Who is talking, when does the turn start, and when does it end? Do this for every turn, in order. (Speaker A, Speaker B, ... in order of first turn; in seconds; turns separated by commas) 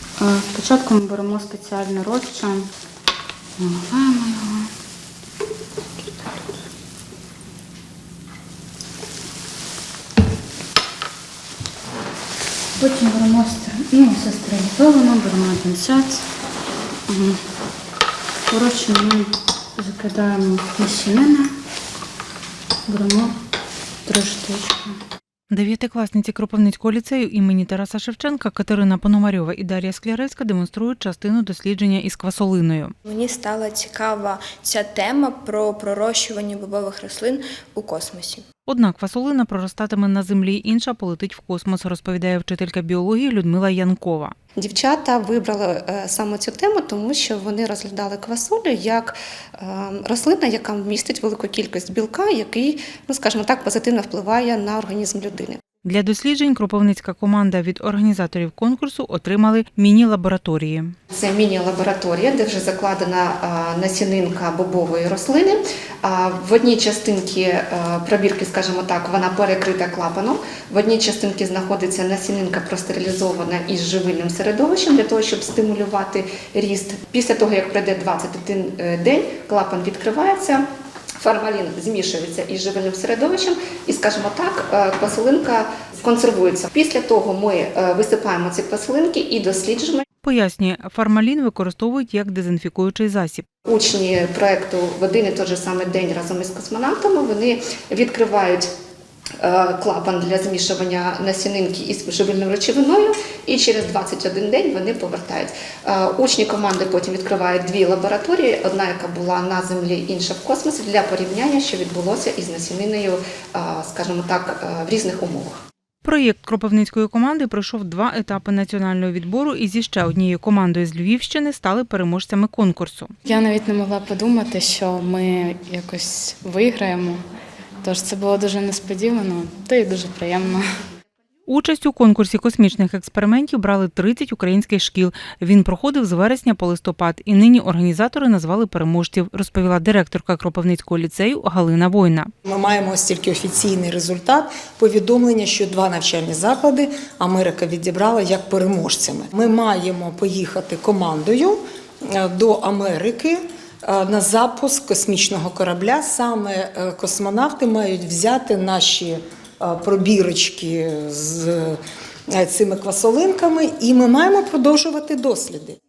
Speaker A: 0.2-2.7, Speaker A: 3.6-4.7, Speaker A: 12.8-16.2, Speaker A: 17.1-17.4, Speaker A: 18.5-21.5, Speaker A: 22.9-23.3, Speaker A: 24.1-24.9, Speaker B: 25.5-32.9, Speaker C: 33.0-38.5, Speaker B: 38.7-44.4, Speaker D: 44.6-55.6, Speaker B: 55.8-61.0, Speaker D: 61.1-80.6, Speaker D: 81.2-90.0, Speaker B: 90.2-93.5, Speaker D: 93.7-98.7, Speaker D: 99.4-115.6, Speaker B: 116.0-123.1, Speaker A: 123.2-127.2, Speaker A: 127.8-130.7, Speaker B: 131.5-142.3, Speaker E: 142.4-165.8